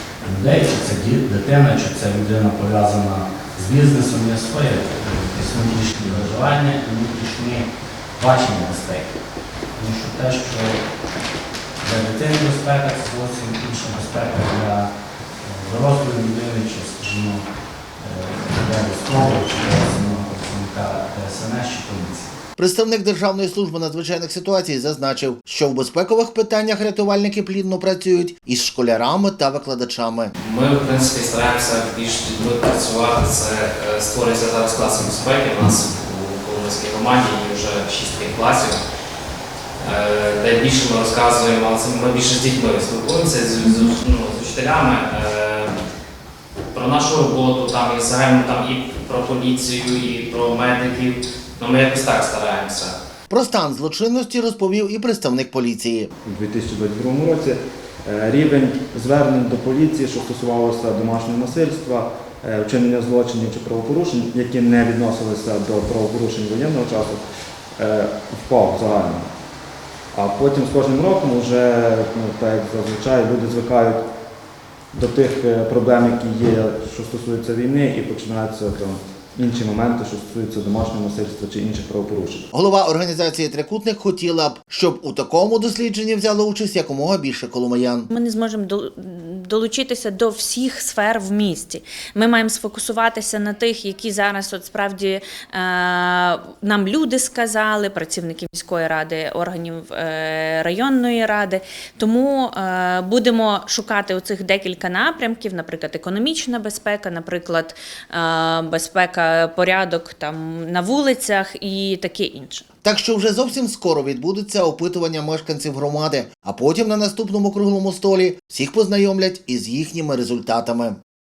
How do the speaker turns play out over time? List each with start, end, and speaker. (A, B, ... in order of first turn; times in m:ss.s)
0:00.2-0:09.1 A
0:09.8-0:10.8 A
0:11.8-0:14.9 A
0:15.4-0:17.5 A
0:18.0-0:22.3 A
0:22.6-0:30.3 B
0:30.4-0:38.8 C
0:39.8-0:45.7 C
0:43.6-0:43.9 D
0:46.7-0:53.0 C
0:53.3-0:56.1 B
0:56.2-1:07.2 E
1:07.8-1:09.3 E
1:10.1-1:14.0 E
1:14.9-1:22.5 E
1:22.5-1:28.1 B
1:28.1-1:52.7 D
1:52.8-2:01.0 B